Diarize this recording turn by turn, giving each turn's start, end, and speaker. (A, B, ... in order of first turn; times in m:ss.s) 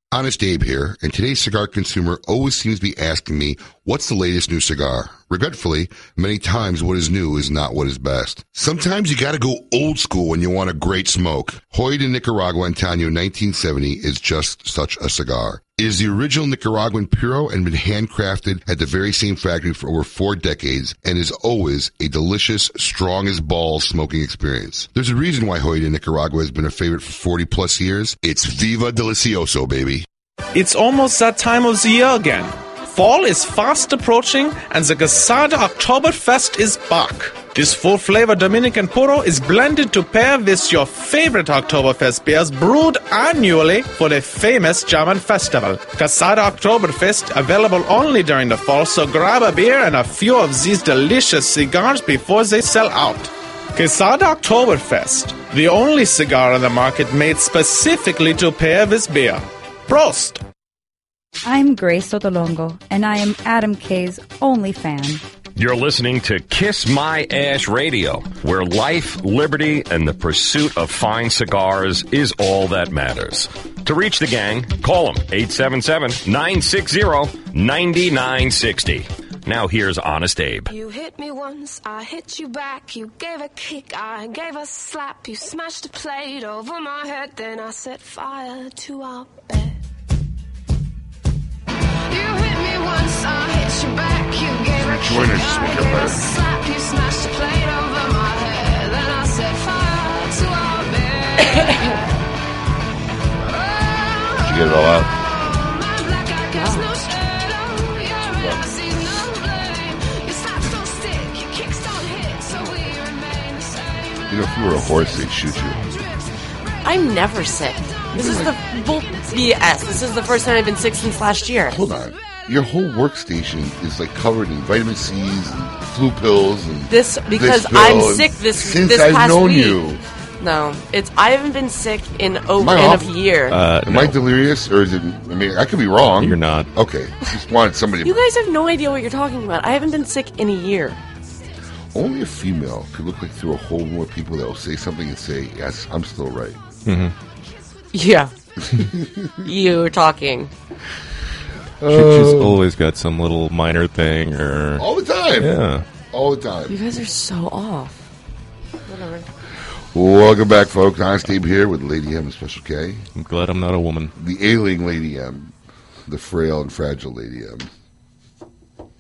0:00.1-0:30.1 A
0:30.5-1:00.4 B
1:01.4-1:05.2 C
1:05.6-1:20.7 D
1:20.7-1:29.8 E
1:32.1-1:42.0 E
1:34.8-1:36.3 A
1:43.6-1:44.4 E
1:44.4-1:45.1 A
1:45.2-1:54.3 E
1:46.5-1:46.9 F
1:54.3-1:55.9 A
1:56.8-2:01.8 F
1:58.2-1:58.5 A
2:01.7-2:10.0 A
2:06.9-2:09.8 F
2:10.4-2:13.6 F
2:12.6-2:13.1 A
2:13.5-2:14.2 G
2:13.8-2:18.2 A
2:16.2-2:16.7 G
2:18.0-2:21.0 F
2:21.9-2:26.6 A
2:26.9-2:27.1 G
2:27.9-2:28.3 F
2:28.7-2:29.4 A
2:29.4-2:30.5 F
2:31.8-2:32.6 A
2:31.9-2:34.9 G
2:34.8-2:35.5 A
2:35.4-2:35.8 G
2:36.1-2:36.8 A
2:36.7-2:38.0 F
2:38.9-2:39.3 F
2:39.9-2:43.1 A
2:43.2-2:44.1 G
2:44.2-2:45.5 A
2:46.1-2:47.7 A